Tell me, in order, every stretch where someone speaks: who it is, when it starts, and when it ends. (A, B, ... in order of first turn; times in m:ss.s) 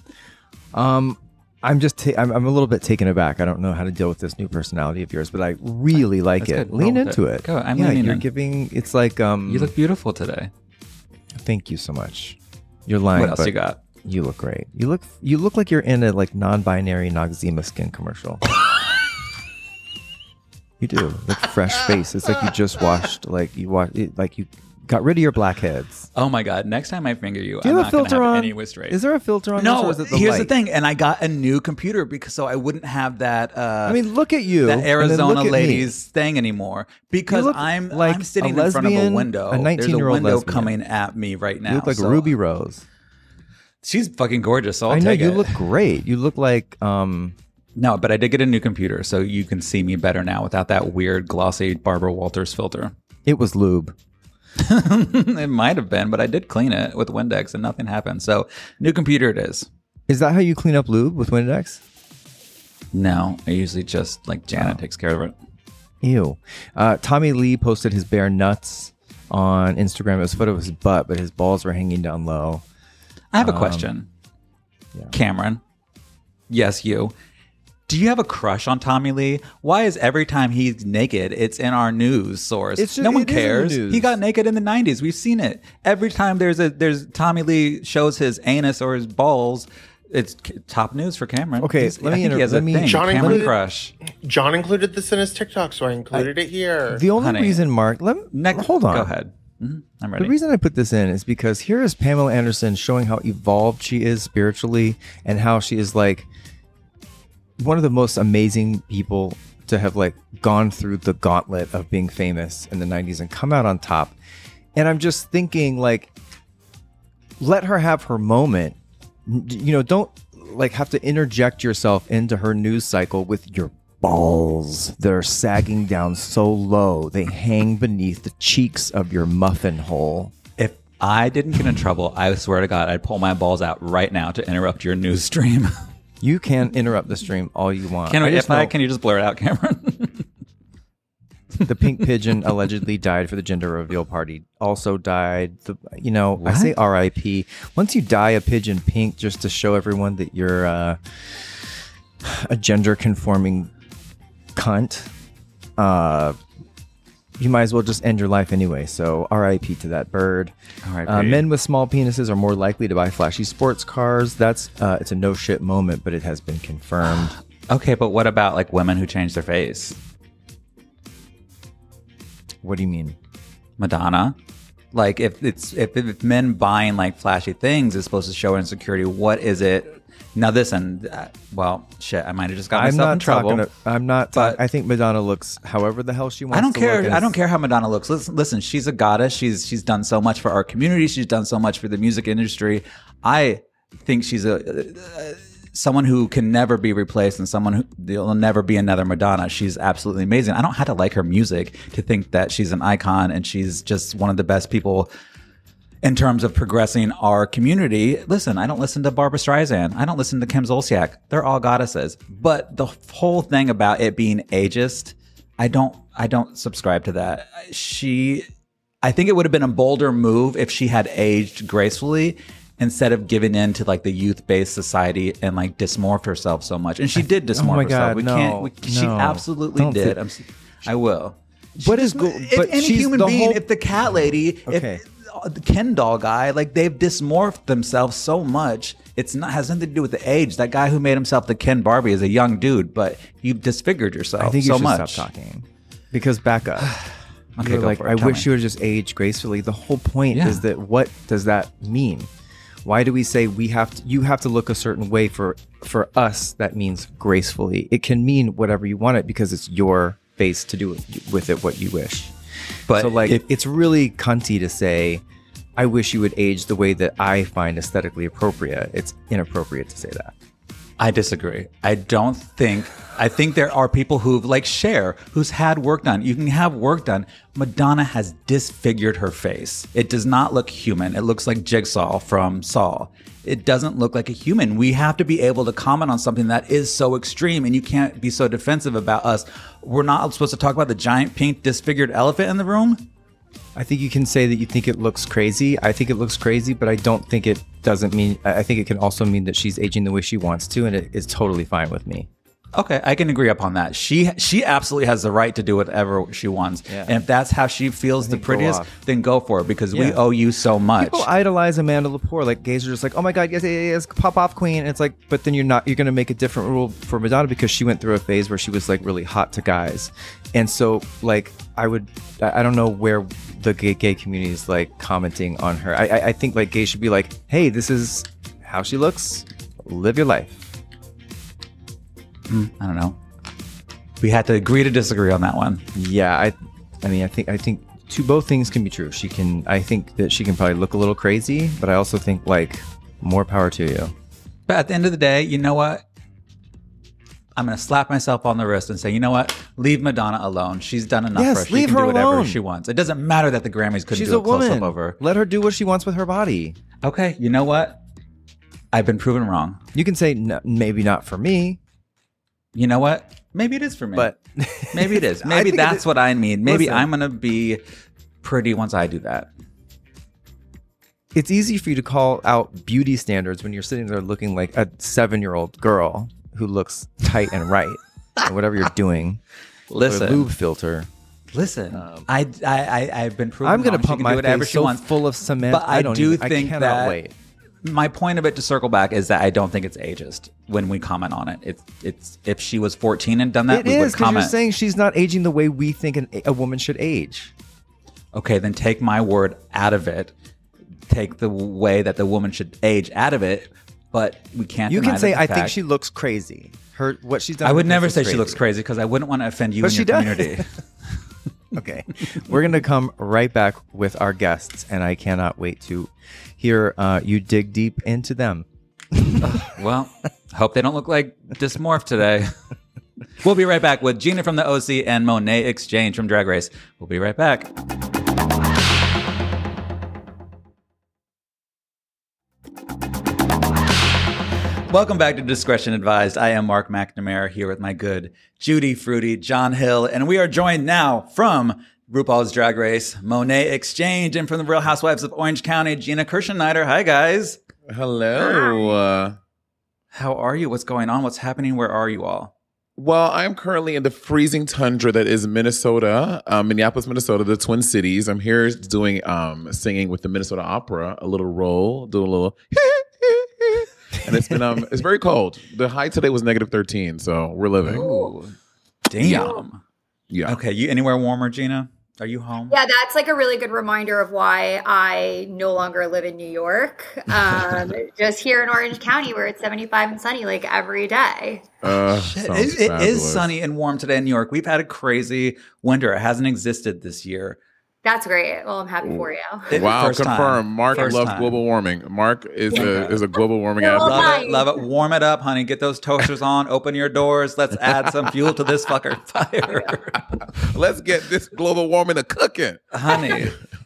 0:00.7-0:09.7 A
0:06.4-0:08.2 B
0:09.4-0:10.5 B
0:11.4-0:18.4 A
0:13.1-0:13.8 B
0:20.8-0:26.1 A
0:26.1-0:29.0 B
0:27.6-0:30.5 A
0:29.6-0:34.0 B
0:33.8-0:35.9 A
0:34.6-0:42.3 B
0:37.3-0:40.7 A
0:41.7-0:42.8 A
0:43.8-0:45.6 B
0:44.9-0:47.4 A
0:47.8-0:52.9 B
0:53.2-0:53.9 A
0:54.6-0:59.7 B
1:00.1-1:01.8 A
1:02.9-1:05.3 B
1:06.0-1:12.6 A
1:13.3-1:14.1 B
1:13.4-1:13.9 A
1:15.1-1:15.6 B
1:16.5-1:17.1 B
1:17.9-1:33.9 B
1:22.8-1:24.2 A
1:31.6-1:33.5 A
1:32.8-1:33.5 C
1:34.2-1:37.0 C
1:36.9-1:39.1 A
1:37.2-1:37.6 B
1:38.3-1:40.3 B
1:40.2-1:46.3 A
1:47.6-1:54.2 A
1:54.8-1:56.1 A
1:57.4-2:10.3 A
2:10.6-2:15.7 B
2:16.2-2:18.7 A
2:18.1-2:20.2 B
2:21.6-2:31.6 A
2:26.4-2:26.7 B
2:32.2-2:33.7 A
2:34.5-2:35.1 A
2:35.8-2:36.4 A
2:37.4-2:40.5 A
2:40.8-2:41.4 B
2:41.0-2:47.4 A
2:47.7-2:50.0 B
2:52.6-2:53.2 A
2:53.8-2:54.4 B
2:54.9-3:03.6 B
3:02.7-3:07.4 A
3:04.3-3:04.6 B
3:06.5-3:25.1 B
3:26.0-3:38.5 B
3:39.0-4:05.3 B
3:47.5-3:50.2 A
3:51.8-3:53.6 A
3:54.6-3:55.0 A
4:04.4-4:06.9 A
4:07.6-4:08.5 B
4:07.6-4:12.3 A
4:10.3-4:10.6 B
4:12.8-4:22.3 A
4:22.9-4:23.4 B
4:22.9-4:25.2 A
4:25.8-4:30.3 A
4:31.0-4:53.1 B
4:53.7-5:02.3 A
5:02.7-5:11.3 B
5:06.9-5:07.2 A
5:08.2-5:08.9 A
5:09.9-5:10.2 A
5:11.0-5:30.6 A
5:32.5-5:33.2 B
5:34.2-5:35.8 B
5:35.9-5:44.1 A
5:44.7-5:46.0 B
5:47.6-5:55.2 B
5:51.3-5:52.6 A
5:54.1-5:56.8 A
5:57.0-5:58.0 B
5:58.9-5:59.8 B
5:59.9-6:01.8 A
6:02.7-6:04.3 B
6:04.2-6:06.0 A
6:04.9-6:07.8 B
6:06.6-6:07.1 A
6:08.4-6:09.5 B
6:11.3-6:19.4 A
6:19.9-6:20.5 B
6:20.0-6:21.1 A
6:21.5-6:25.1 B
6:21.9-6:22.3 A
6:23.6-6:27.3 A
6:25.6-6:27.2 B
6:27.8-6:34.5 B
6:33.7-6:37.5 A
6:38.3-6:40.3 B
6:41.1-6:45.8 B
6:44.9-6:48.6 A
6:47.6-6:50.7 B
6:49.8-6:50.6 A
6:51.7-6:59.4 A
6:59.4-7:02.5 B
7:03.4-7:07.7 B
7:14.9-7:27.6 B
7:27.9-7:29.4 D
7:28.4-7:28.9 E
7:30.1-7:32.5 B
7:33.0-7:48.1 D
7:47.8-7:48.5 B
7:47.9-7:48.3 E
7:49.1-7:49.8 B
7:49.2-7:49.5 D
7:49.3-7:49.6 E
7:50.3-7:50.6 D
7:50.4-7:52.7 B
7:52.7-8:01.7 E
8:01.8-8:03.5 D
8:01.9-8:07.6 B
8:08.0-8:09.8 E
8:09.0-8:14.4 D
8:09.7-8:11.6 B
8:12.7-8:13.2 B
8:13.8-8:14.8 E
8:14.0-8:20.4 B
8:20.5-8:23.5 D
8:22.9-8:23.6 B